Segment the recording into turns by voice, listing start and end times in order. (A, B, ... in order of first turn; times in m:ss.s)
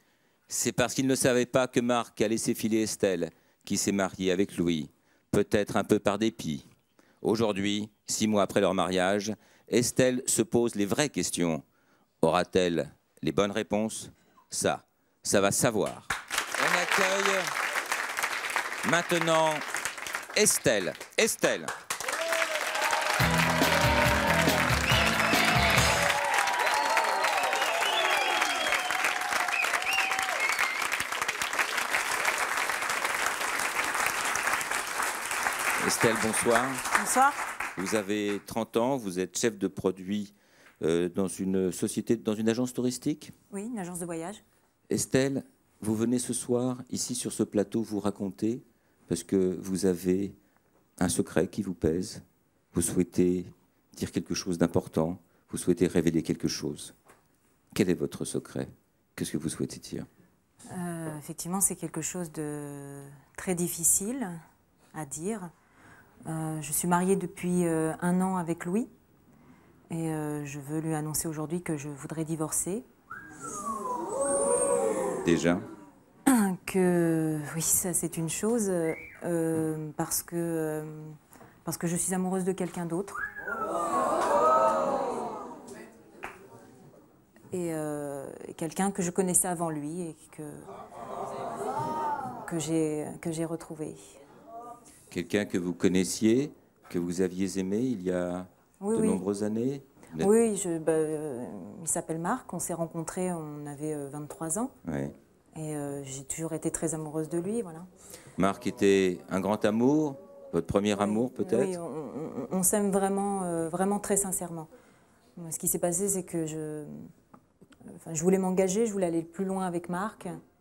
0:00.5-0:06.6 A
0:07.2-0:11.6 A
0:12.2-0:17.5 A
0:18.8-0:19.6 A
0:20.3-0:21.7 A
0:35.8-0:36.8 A
0:36.9-0:37.4 B
0:37.8-0:43.3 A
0:43.5-0:44.4 B
0:44.9-0:50.3 A
0:51.0-0:56.9 A
0:57.7-1:00.1 A
1:00.7-1:04.4 B
1:04.9-1:05.5 B
1:06.2-1:08.9 B
1:09.9-1:12.8 B
1:15.2-1:15.6 A
1:16.3-1:23.2 B
1:27.5-1:30.7 B
1:32.4-1:34.1 B
1:35.1-1:40.3 A
1:38.8-1:39.2 B
1:40.2-1:44.7 B
1:44.8-1:45.1 A
1:45.5-1:47.9 B
1:48.4-1:51.8 A
1:50.9-1:54.7 B
1:55.4-1:57.1 B
1:57.9-2:00.4 B